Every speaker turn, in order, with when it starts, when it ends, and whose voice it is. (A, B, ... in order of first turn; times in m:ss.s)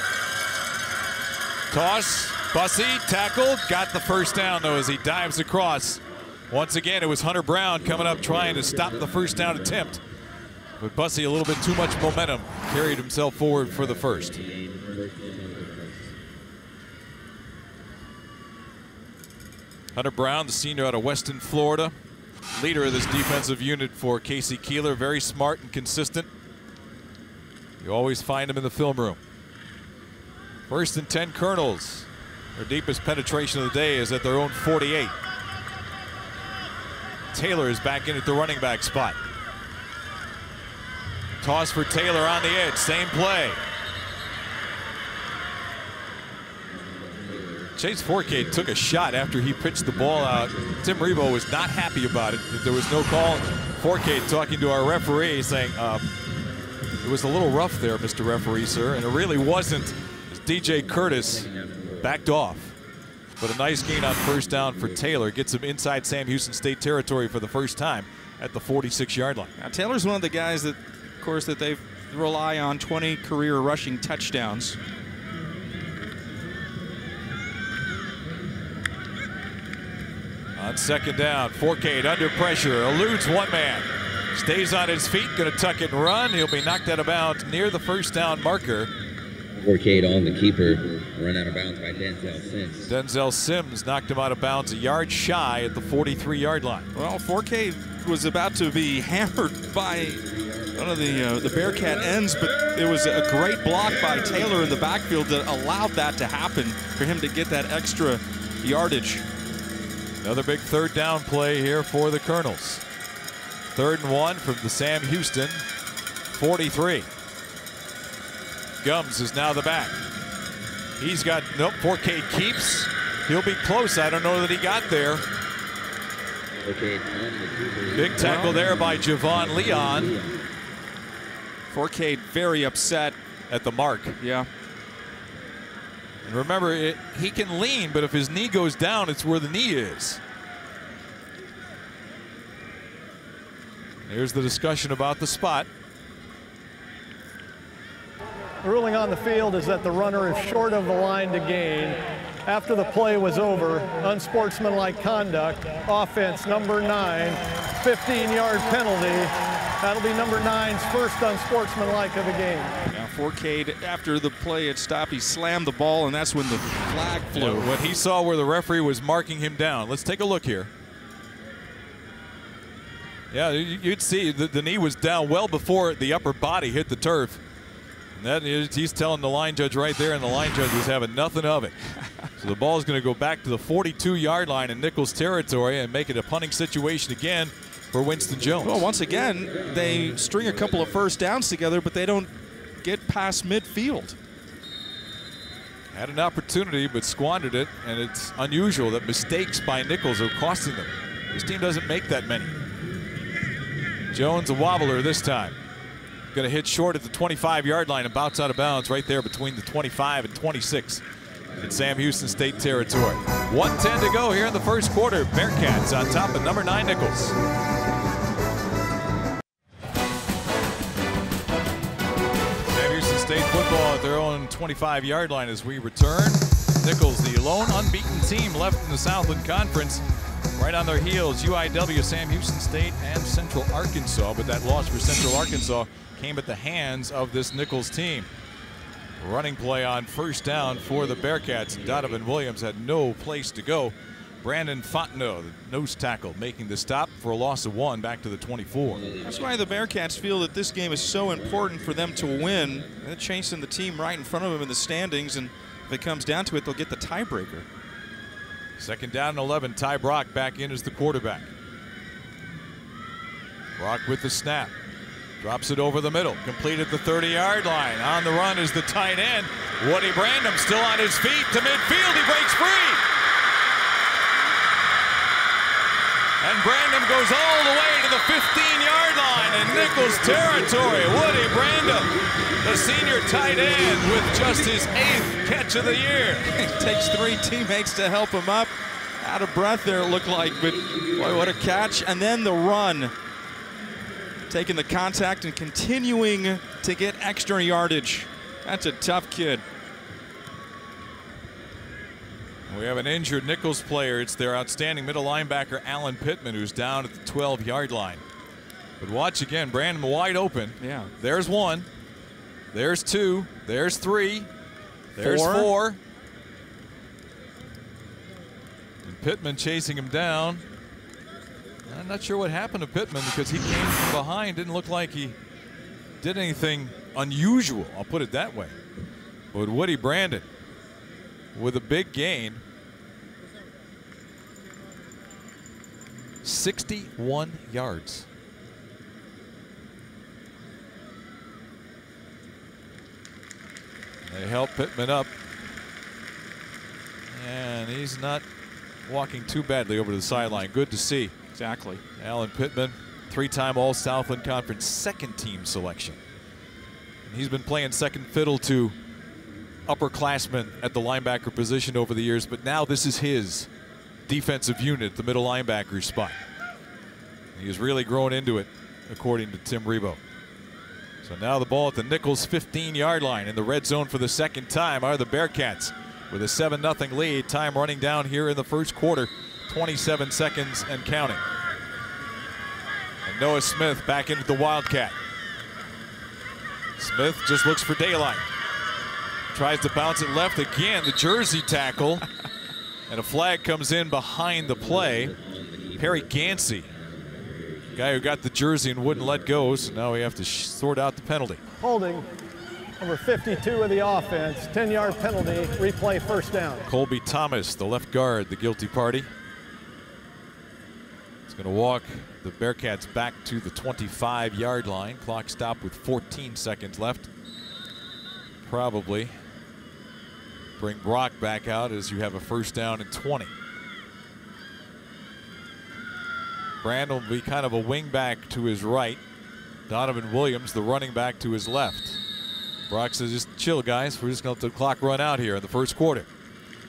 0:01.7-0:10.0 A
0:08.4-0:09.5 B
0:10.8-0:14.4 A
0:13.7-0:16.0 B
0:19.9-0:21.9 A
0:22.5-0:26.3 A
0:27.8-0:29.2 A
0:30.7-0:35.1 A
0:37.3-0:39.2 A
0:41.4-0:43.6 A
0:46.7-0:47.7 B
0:47.8-0:56.0 A
0:57.0-1:01.5 A
1:01.4-1:02.1 B
1:02.0-1:02.7 A
1:03.4-1:09.5 A
1:09.6-1:14.8 C
1:20.6-1:28.9 A
1:29.6-1:32.9 B
1:32.8-1:36.9 A
1:36.9-1:49.2 C
1:50.2-1:52.8 A
1:53.7-1:55.6 A
1:56.3-1:57.1 A
1:58.8-2:00.0 A
2:01.0-2:05.2 A
2:06.6-2:08.4 B
2:07.9-2:10.1 A
2:08.2-2:08.6 C
2:09.8-2:10.3 B
2:11.7-2:13.2 C
2:13.5-2:14.2 A
2:14.2-2:14.5 C
2:16.2-2:20.2 A
2:24.0-2:25.7 A
2:28.6-2:42.8 D
2:42.9-2:47.7 C
2:47.3-2:50.7 A
2:53.3-2:57.4 A
2:58.1-3:01.7 A
3:02.4-3:08.9 A
3:08.6-3:12.3 C
3:12.8-3:14.2 C
3:15.9-3:22.6 A
3:24.1-3:25.6 A
3:26.3-3:31.0 A
3:31.6-3:37.4 A
3:42.7-3:50.0 A
3:50.6-3:58.3 A
3:59.2-4:09.0 A
4:09.1-4:09.7 B
4:09.2-4:17.7 C
4:18.8-4:21.5 A
4:23.8-4:24.7 A
4:25.4-4:33.0 A
4:36.4-4:46.5 A
4:46.4-4:53.1 C
4:54.5-4:59.6 C
5:02.7-5:08.2 A
5:09.0-5:11.9 A
5:10.8-5:11.1 C
5:12.7-5:14.5 A
5:15.1-5:16.0 A
5:15.2-5:15.7 C
5:19.0-5:20.6 A
5:21.9-5:25.4 A
5:26.2-5:28.8 A
5:29.5-5:30.5 A
5:31.5-5:32.6 A
5:36.4-5:38.3 A
5:44.2-5:45.3 A
5:47.3-5:48.4 A
5:49.0-5:51.3 A
5:51.5-5:52.0 C
5:52.2-5:56.2 A
5:57.2-5:59.0 A
5:59.9-6:03.7 A
6:04.3-6:06.4 A
6:07.5-6:10.2 A
6:11.2-6:21.4 A
6:23.2-6:25.2 A
6:27.0-6:28.4 A
6:29.5-6:32.2 A
6:33.1-6:35.3 A
6:35.0-6:36.3 B
6:36.0-6:36.9 A
6:37.1-6:38.0 B
6:37.9-6:41.6 A
6:41.8-6:42.3 D
6:43.0-6:46.8 D
6:46.8-6:49.3 A
6:51.5-6:57.3 A
6:58.6-6:59.3 A
7:00.8-7:03.5 A
7:06.8-7:09.2 A
7:09.9-7:12.2 A
7:12.9-7:16.3 A